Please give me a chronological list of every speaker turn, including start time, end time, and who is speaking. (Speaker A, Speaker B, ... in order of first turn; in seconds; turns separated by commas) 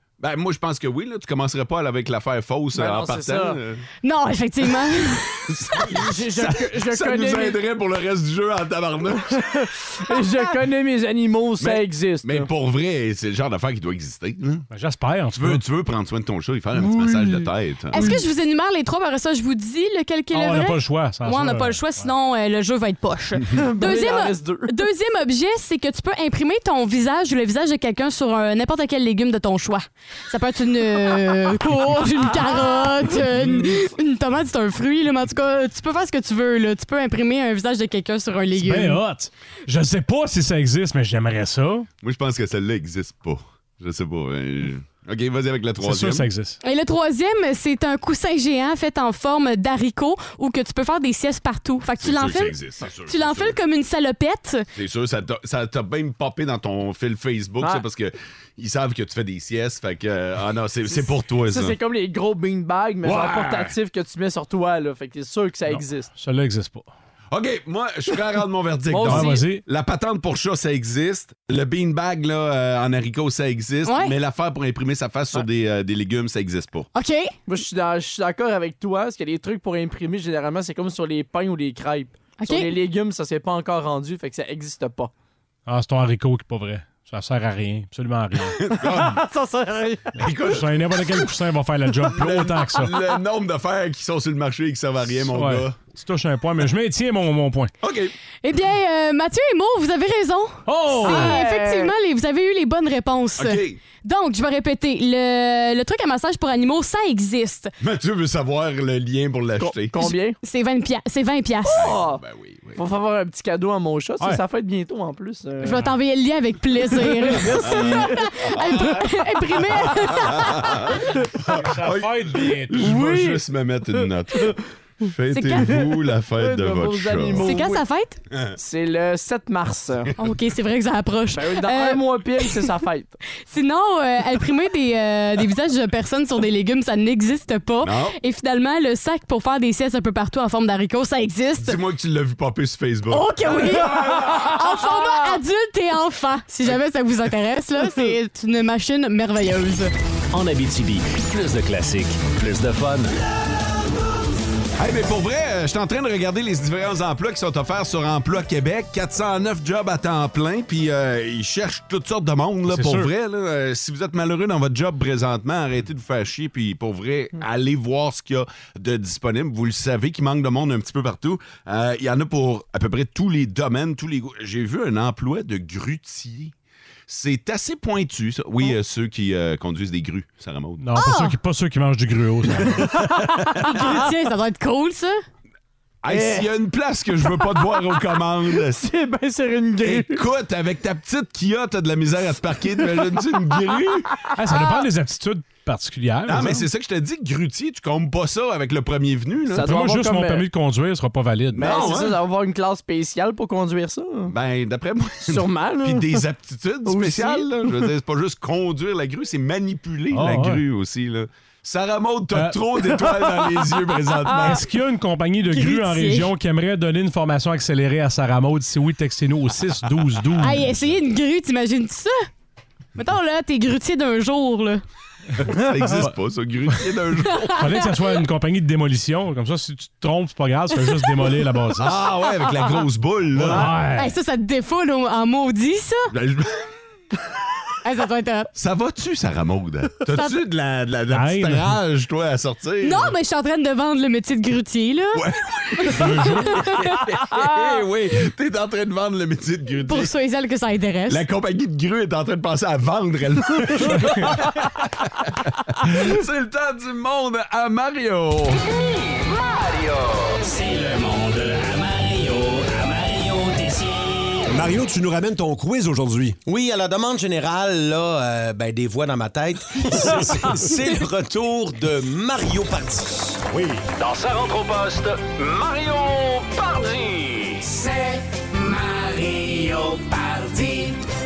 Speaker A: 0.2-3.8, Speaker B: 2.7-3.6, Speaker C: 4.0-5.5, Speaker A: 5.5-9.6, Speaker B: 5.9-7.6, Speaker B: 9.5-12.5, Speaker A: 11.6-14.7, Speaker D: 14.7-15.6, Speaker A: 15.3-18.1, Speaker B: 16.8-18.1, Speaker C: 17.9-39.0, Speaker D: 20.3-22.1, Speaker B: 23.5-24.7, Speaker D: 38.5-41.9, Speaker A: 42.0-46.3, Speaker D: 45.8-46.6, Speaker C: 46.6-54.6, Speaker A: 52.0-53.6, Speaker A: 54.7-61.8, Speaker B: 60.9-66.1, Speaker A: 63.0-63.8, Speaker D: 65.7-66.9, Speaker A: 67.3-76.9, Speaker B: 68.9-69.4, Speaker D: 69.1-69.6, Speaker C: 73.8-74.1, Speaker C: 76.9-77.3, Speaker B: 77.5-85.1, Speaker C: 82.4-82.7, Speaker D: 85.7-88.6, Speaker A: 88.6-89.2, Speaker B: 88.8-90.1, Speaker A: 90.2-91.2, Speaker D: 90.2-92.9, Speaker A: 92.0-95.8, Speaker D: 95.2-97.7, Speaker A: 97.8-98.1, Speaker C: 98.4-107.7, Speaker D: 100.7-101.3, Speaker B: 100.9-101.9, Speaker A: 103.4-103.8, Speaker A: 107.8-110.1, Speaker B: 109.6-110.4, Speaker C: 110.0-112.0, Speaker B: 111.7-112.2, Speaker A: 111.7-112.8, Speaker B: 112.8-115.8, Speaker C: 115.6-120.9, Speaker B: 117.0-118.3, Speaker A: 117.6-119.0, Speaker A: 119.8-127.5, Speaker D: 121.5-122.9, Speaker B: 122.7-123.4, Speaker C: 125.3-125.8, Speaker B: 126.3-127.8, Speaker C: 127.4-128.2, Speaker B: 128.6-130.1, Speaker C: 130.2-132.5, Speaker B: 131.3-133.2, Speaker C: 133.4-141.8, Speaker A: 137.8-138.2, Speaker A: 141.6-143.8, Speaker C: 143.1-149.9, Speaker E: 150.3-153.1, Speaker A: 154.8-176.5, Speaker D: 162.7-163.1, Speaker A: 177.1-180.8, Speaker D: 180.8-182.9, Speaker C: 180.9-181.3, Speaker A: 182.7-182.9, Speaker C: 183.6-185.2, Speaker A: 186.0-188.9, Speaker B: 186.1-186.5, Speaker B: 187.3-187.8, Speaker B: 188.5-190.2, Speaker A: 189.8-194.2, Speaker D: 194.3-196.7, Speaker A: 196.2-199.9, Speaker B: 199.5-200.5, Speaker D: 199.6-201.9, Speaker A: 201.5-202.2, Speaker B: 201.5-204.3, Speaker A: 204.3-214.7, Speaker B: 205.2-206.2, Speaker B: 206.8-207.9, Speaker D: 210.1-210.6, Speaker D: 212.3-212.6, Speaker D: 214.4-220.9, Speaker C: 215.5-216.3, Speaker C: 220.3-222.2, Speaker C: 222.9-224.8, Speaker A: 225.4-227.6, Speaker D: 227.6-232.0, Speaker A: 231.8-233.7, Speaker D: 233.4-234.1, Speaker C: 233.9-236.1, Speaker A: 236.1-236.7, Speaker C: 237.8-238.5, Speaker A: 238.5-243.1, Speaker D: 241.1-241.7, Speaker C: 242.8-245.2, Speaker A: 245.1-250.1, Speaker C: 245.8-247.0, Speaker D: 245.9-246.5, Speaker C: 249.8-251.2, Speaker A: 251.1-258.6, Speaker E: 258.8-264.5, Speaker F: 264.4-266.4, Speaker G: 266.4-273.4, Speaker F: 270.1-270.5, Speaker F: 273.5-273.8, Speaker E: 273.9-281.0